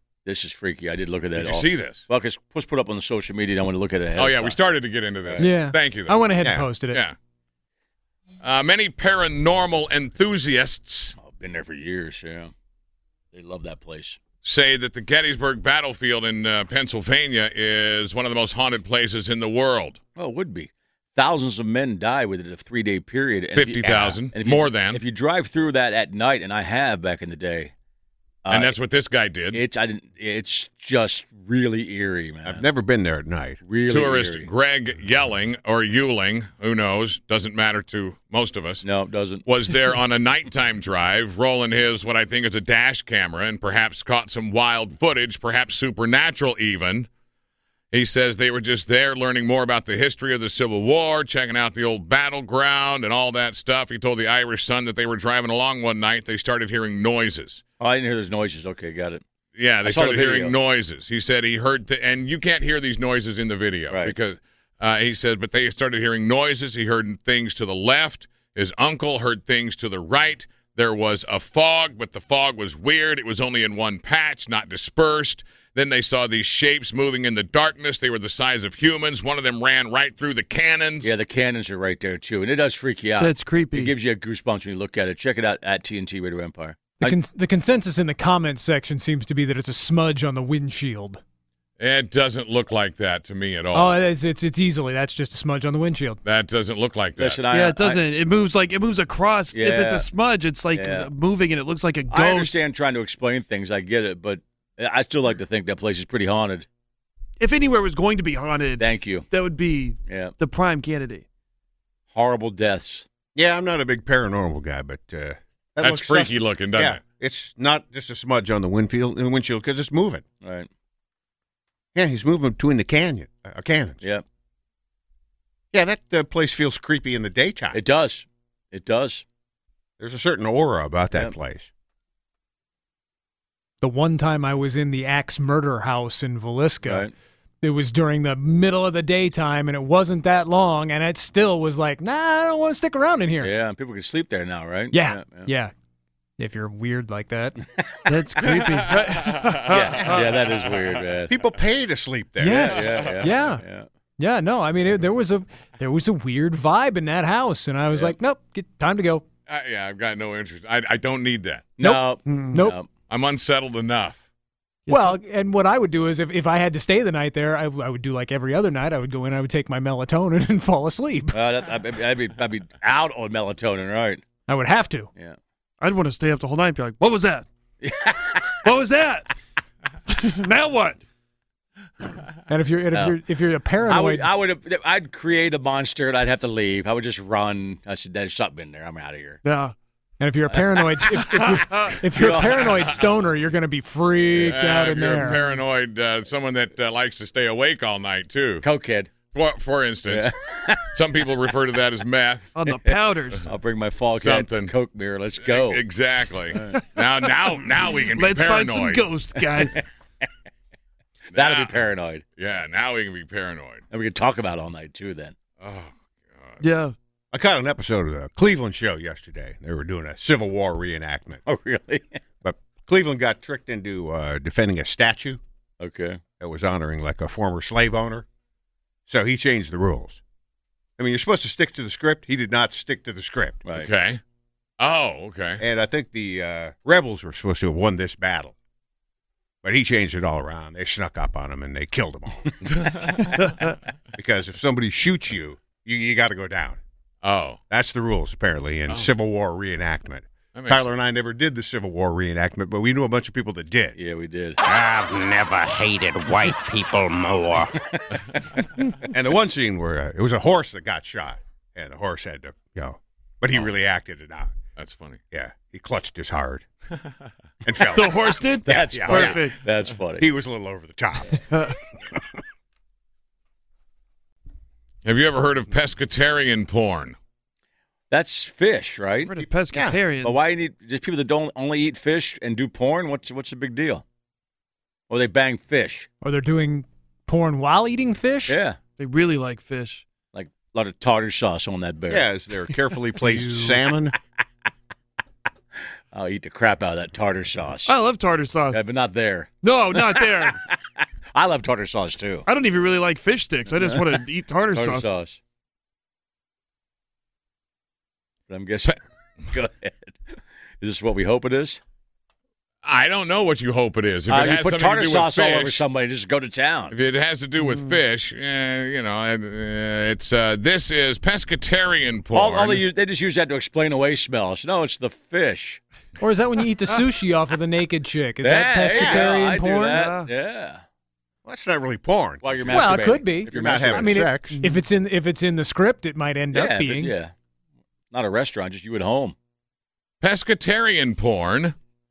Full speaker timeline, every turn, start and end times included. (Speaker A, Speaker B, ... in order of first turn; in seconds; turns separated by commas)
Speaker A: 0.2-4.6, Speaker B: 1.4-2.0, Speaker B: 4.2-6.3, Speaker A: 5.2-5.5, Speaker C: 5.4-7.0, Speaker D: 6.4-6.7, Speaker B: 8.4-11.2, Speaker A: 11.2-12.5, Speaker A: 13.3-14.2, Speaker B: 14.4-20.0, Speaker A: 20.1-27.7, Speaker B: 23.5-25.0, Speaker A: 28.4-28.8, Speaker B: 28.5-29.6, Speaker A: 29.5-32.6, Speaker D: 32.4-33.6, Speaker A: 33.6-34.5, Speaker B: 33.9-38.8, Speaker A: 38.8-39.5, Speaker B: 39.4-47.1, Speaker B: 47.9-57.6, Speaker A: 57.8-59.2, Speaker B: 59.5-81.1, Speaker A: 59.8-60.5, Speaker A: 63.9-64.2, Speaker A: 81.0-87.2, Speaker E: 83.2-83.9, Speaker C: 87.0-91.2, Speaker B: 91.8-94.0, Speaker C: 93.7-96.2, Speaker B: 96.2-97.4, Speaker A: 97.2-98.0, Speaker E: 97.5-102.6, Speaker A: 99.5-100.1, Speaker A: 100.7-101.1, Speaker A: 102.1-106.7, Speaker E: 107.4-111.2, Speaker A: 108.8-109.2, Speaker A: 110.1-110.3, Speaker A: 112.1-113.0, Speaker D: 113.3-120.2, Speaker B: 115.8-117.0, Speaker A: 120.4-120.7, Speaker D: 121.9-124.0, Speaker D: 125.7-127.8, Speaker A: 127.7-129.2, Speaker D: 130.0-131.7, Speaker C: 133.8-137.1, Speaker A: 136.8-137.1, Speaker C: 137.6-143.5, Speaker A: 143.4-145.5, Speaker C: 144.9-145.7, Speaker C: 146.4-147.7, Speaker E: 148.1-150.4, Speaker B: 148.4-151.0, Speaker A: 149.7-151.3, Speaker D: 151.3-152.9, Speaker C: 152.4-153.6, Speaker A: 152.4-153.9, Speaker B: 152.8-153.3, Speaker C: 154.2-159.2, Speaker B: 159.5-161.8, Speaker A: 161.8-162.9, Speaker C: 161.8-162.8, Speaker E: 162.2-162.6, Speaker B: 163.1-164.2, Speaker E: 164.9-165.2, Speaker C: 164.9-171.4, Speaker A: 171.3-174.2, Speaker C: 174.5-175.1, Speaker E: 175.8-177.4, Speaker A: 177.8-178.5, Speaker E: 178.6-179.3, Speaker E: 180.1-181.0, Speaker C: 182.5-184.3, Speaker A: 182.9-183.2, Speaker A: 183.9-189.4, Speaker E: 189.4-189.7, Speaker C: 190.2-195.4, Speaker A: 190.5-191.1, Speaker A: 192.1-193.0, Speaker B: 194.4-198.7, Speaker A: 198.6-199.1, Speaker B: 199.3-200.3, Speaker A: 200.1-201.0, Speaker B: 200.9-202.6, Speaker E: 202.6-203.5, Speaker A: 202.7-205.8, Speaker B: 204.1-204.7, Speaker B: 205.4-209.1, Speaker A: 206.4-206.8, Speaker E: 208.1-209.8, Speaker A: 209.3-209.8, Speaker A: 211.3-212.2, Speaker B: 211.3-211.8, Speaker B: 212.4-213.8, Speaker A: 213.9-215.3, Speaker B: 215.6-216.6, Speaker E: 216.6-216.9, Speaker D: 217.3-221.4, Speaker A: 221.4-222.2, Speaker D: 222.4-225.4, Speaker A: 225.8-226.2, Speaker D: 226.4-228.2, Speaker D: 229.1-230.2, Speaker D: 231.0-233.6, Speaker B: 233.8-234.2, Speaker B: 234.8-235.6, Speaker D: 235.6-238.5, Speaker D: 239.6-243.0, Speaker B: 242.8-243.4, Speaker D: 244.1-246.8, Speaker B: 247.2-247.6, Speaker D: 247.7-253.9, Speaker B: 250.5-250.9, Speaker A: 253.9-254.6, Speaker F: 254.6-257.7, Speaker A: 257.9-258.6, Speaker D: 259.1-264.5, Speaker B: 264.8-265.2, Speaker D: 265.3-266.6, Speaker D: 267.6-269.5, Speaker E: 267.9-269.6, Speaker A: 268.6-270.3, Speaker D: 270.2-271.4, Speaker B: 275.0-277.2, Speaker A: 278.1-279.3, Speaker E: 279.3-280.4, Speaker D: 279.4-280.0, Speaker A: 280.2-284.0, Speaker A: 285.1-286.1, Speaker C: 286.2-288.6, Speaker A: 288.5-288.8, Speaker E: 289.0-290.0, Speaker A: 290.3-292.2, Speaker D: 292.1-294.1, Speaker E: 293.2-293.8, Speaker A: 296.1-297.9, Speaker E: 297.9-298.8, Speaker A: 298.7-300.8, Speaker E: 299.6-300.6, Speaker A: 301.3-302.4, Speaker E: 302.4-305.1, Speaker A: 303.7-305.4, Speaker A: 308.5-311.8, Speaker B: 312.8-315.8, Speaker A: 314.3-316.9, Speaker B: 316.9-322.8, Speaker E: 317.6-318.0, Speaker A: 322.3-325.8, Speaker C: 326.2-330.0, Speaker A: 328.4-330.8, Speaker D: 328.9-329.3, Speaker E: 329.9-330.3, Speaker D: 331.4-333.0, Speaker A: 332.4-334.3, Speaker C: 332.7-337.1, Speaker D: 333.5-334.6, Speaker A: 336.5-337.3, Speaker A: 338.1-339.4, Speaker B: 340.2-341.7